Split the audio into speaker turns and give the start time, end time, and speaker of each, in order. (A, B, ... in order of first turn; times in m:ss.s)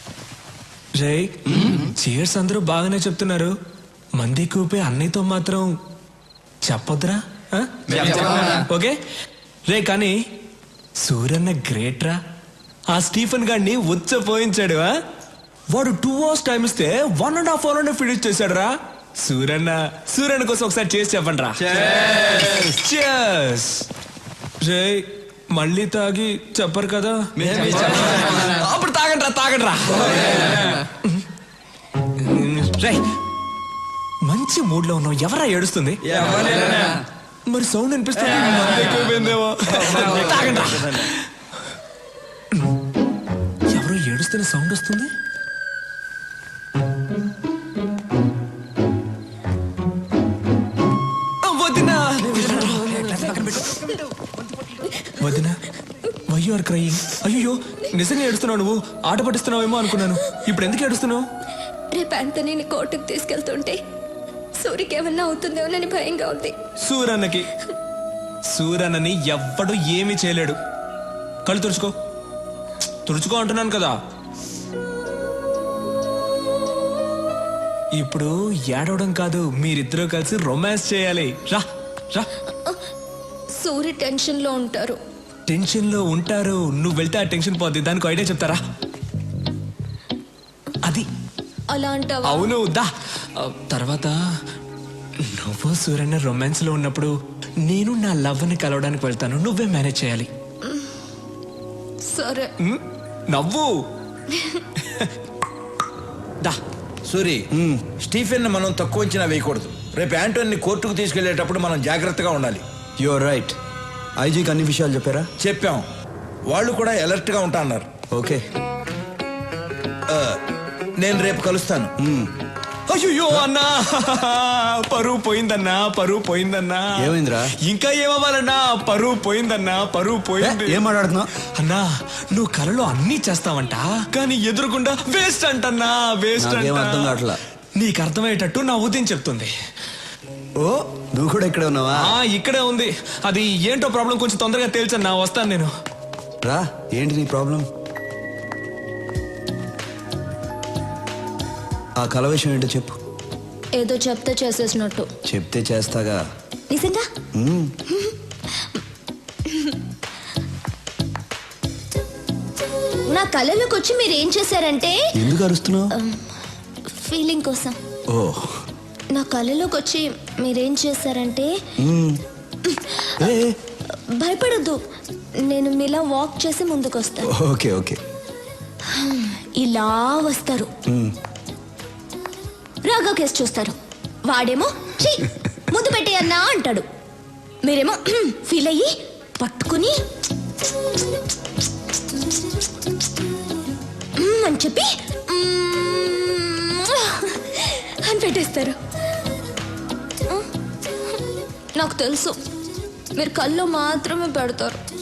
0:00.9-0:03.5 A
0:04.1-0:05.8 A
0:06.6-0:09.0 A
0:09.7-0:10.2 A
0:11.0-0:12.2 A
0:12.9-0:15.0 A
0:15.7-0:21.6 A
0:21.7-0:22.6 B
0:22.4-0:23.8 A
0:24.6-0:31.2 A
0:27.4-0:28.6 B
0:32.2-0:33.0 A
0:34.2-0:36.8 A
0:37.5-0:41.2 A
0:39.9-0:40.6 B
0:43.7-0:45.1 A
0:51.4-0:54.0 A
0:55.1-0:55.6 A
0:56.2-1:01.2 A
1:01.9-1:03.8 C
1:04.6-1:06.6 C
1:06.8-1:07.5 A
1:08.5-1:10.6 A
1:11.4-1:11.9 A
1:13.0-1:13.9 A
1:18.0-1:22.3 A
1:23.6-1:25.0 C
1:25.5-1:28.6 A
1:30.8-1:31.1 A
1:31.7-1:32.5 C
1:32.2-1:34.2 A
1:35.2-1:40.3 A
1:42.1-1:42.5 C
1:42.6-1:43.7 A
1:44.8-1:45.1 A
1:47.1-1:52.6 D
1:53.0-1:53.6 B
1:54.2-1:55.3 B
1:55.4-1:55.8 D
1:56.5-1:57.8 D
1:58.1-1:58.4 B
2:00.1-2:00.4 D
2:01.0-2:01.9 D
2:02.0-2:02.3 B
2:02.9-2:10.8 A
2:07.0-2:07.5 B
2:10.4-2:11.3 B
2:11.5-2:17.2 A
2:16.4-2:17.4 B
2:17.7-2:19.5 A
2:20.6-2:22.1 B
2:22.0-2:25.7 A
2:26.4-2:27.6 B
2:32.0-2:32.9 B
2:33.7-2:35.1 C
2:35.3-2:36.2 B
2:36.7-2:37.0 C
2:37.4-2:37.7 B
2:39.4-2:39.7 C
2:43.1-2:45.0 C
2:45.1-2:45.9 B
2:45.9-2:46.2 C
2:46.9-2:47.8 C
2:48.1-2:48.5 B
2:49.1-2:51.5 C
2:51.8-2:52.2 B
2:52.6-2:53.3 C
2:53.2-2:53.5 B
2:54.2-2:54.8 C
2:55.5-2:57.3 C
2:57.2-2:58.0 B
2:58.9-3:00.7 C
3:00.9-3:01.1 B
3:02.8-3:06.8 C
3:07.6-3:10.0 C
3:14.2-3:18.8 C
3:21.8-3:22.4 C
3:23.2-3:24.8 C